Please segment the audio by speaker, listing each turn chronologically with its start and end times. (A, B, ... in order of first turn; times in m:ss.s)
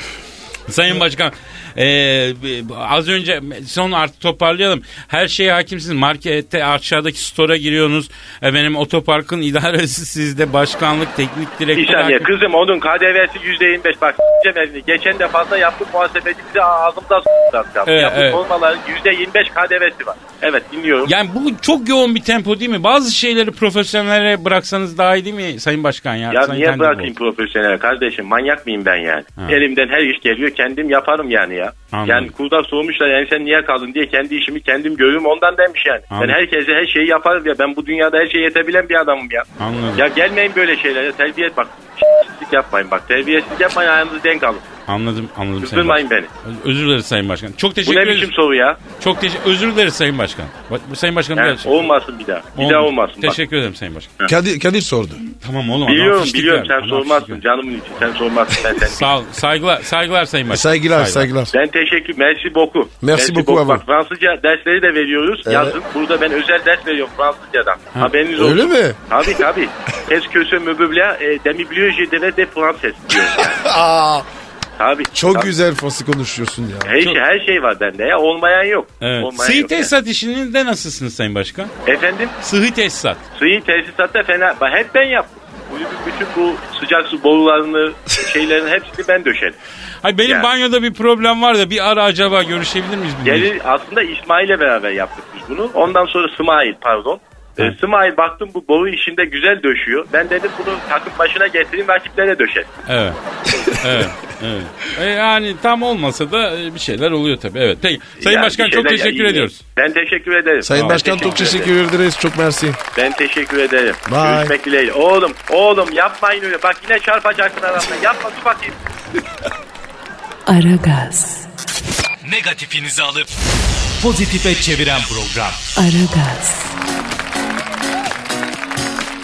0:00.7-0:12.3 A
0:11.8-0:21.1 B
0:17.9-0:18.4 A
0:21.0-0:27.1 A
0:26.3-0:39.5 B
0:31.9-0:32.3 A
0:36.1-0:36.4 A
0:39.6-0:40.0 A
0:40.0-0:44.6 B
0:44.9-0:48.3 A
0:45.6-0:46.3 B
0:47.8-0:48.8 B
0:49.0-0:51.9 A
0:51.4-0:53.4 B
0:52.6-0:54.2 A
0:54.3-0:55.2 C
0:55.4-0:57.4 A
0:55.9-0:59.1 B
0:58.9-1:01.3 A
1:00.5-1:01.5 C
1:01.5-1:13.6 B
1:03.0-1:03.8 C
1:05.4-1:05.8 C
1:08.3-1:09.4 C
1:13.2-1:14.3 C
1:14.8-1:15.5 B
1:15.1-1:17.0 C
1:16.8-1:19.9 B
1:19.0-1:21.7 A
1:21.9-1:22.4 B
1:22.4-1:23.2 A
1:23.4-1:29.6 B
1:30.0-1:33.5 A
1:33.2-1:42.7 B
1:42.9-1:49.6 A
1:48.2-1:51.7 B
1:50.6-1:52.8 C
1:50.7-1:51.4 A
1:53.0-1:58.8 B
1:54.1-1:54.6 C
2:00.5-2:01.5 D
2:02.2-2:03.3 E
2:04.0-2:05.7 E
2:05.8-2:06.7 D